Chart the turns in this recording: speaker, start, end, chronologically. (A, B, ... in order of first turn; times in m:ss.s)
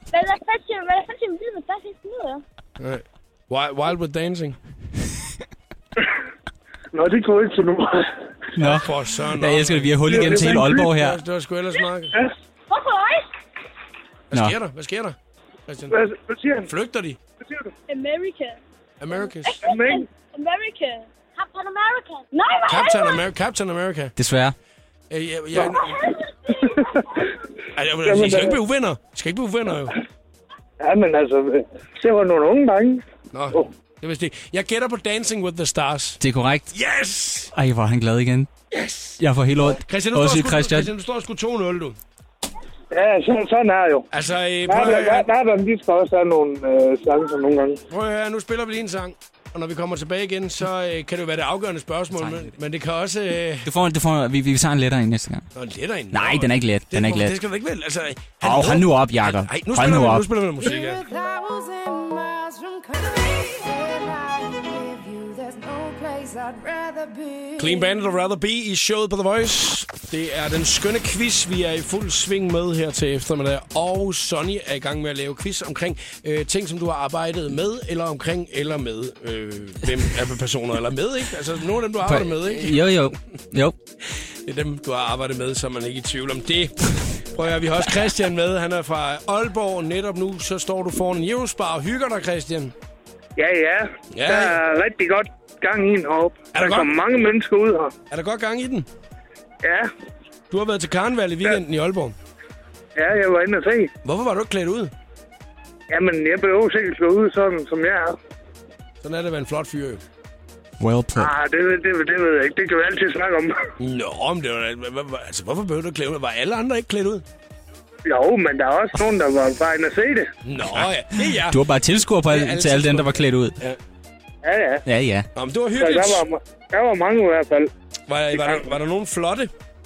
0:00.1-0:02.4 A
0:02.8-0:04.6 B
0:06.9-0:08.2 C
0:08.6-0:11.2 D
0:08.6-0:12.2 B
0:10.0-0:10.9 C
0:12.7-0:13.3 A
0:14.3-0:15.2 B
0:15.7-0:16.0 B
0:15.9-0:16.7 C
0:16.6-0:17.2 B
0:17.4-0:17.7 C
0:17.9-0:18.6 A
0:19.0-0:19.6 B
0:19.2-0:23.2 A
0:19.6-0:20.0 C
0:22.7-0:24.1 B
0:24.2-0:24.5 D
0:25.1-0:26.0 B
0:25.7-0:26.8 A
0:26.6-0:27.2 C
0:27.8-0:29.9 B
0:28.0-0:28.6 C
0:30.8-0:33.7 C
0:33.3-0:36.2 B
0:36.2-0:36.7 D
0:36.7-0:37.5 B
0:37.5-0:38.5 D
0:38.7-0:39.1 B
0:39.2-0:40.9 D
0:39.7-0:42.0 B
0:42.9-0:44.1 C
0:44.1-0:45.3 B
0:44.7-0:47.8 C
0:47.9-0:53.7 B
0:52.1-0:52.5 D
0:53.6-0:55.5 D
0:55.5-1:01.0 B
0:56.1-0:57.4 D
0:58.4-1:00.3 D
1:00.6-1:08.1 E
1:07.6-1:22.9 B
1:22.0-1:23.8 D
1:24.4-1:32.7 B
1:33.4-1:37.9 C
1:34.1-1:34.6 B
1:36.5-1:36.9 B
1:38.1-1:38.9 B
1:39.6-1:39.9 C
1:40.5-1:42.2 B
1:43.0-1:43.9 C
1:44.0-1:44.9 B
1:45.9-1:48.2 C
1:49.0-1:50.0 B
1:50.8-1:51.3 D
1:51.2-1:53.6 C
1:53.8-1:57.2 B
1:58.0-2:00.3 C
2:00.4-2:01.6 B
2:01.3-2:03.6 D
2:02.2-2:03.8 B
2:04.4-2:04.8 C
2:04.8-2:05.3 D
2:05.3-2:06.2 B
2:05.8-2:07.7 C
2:08.1-2:09.5 B
2:08.3-2:08.7 C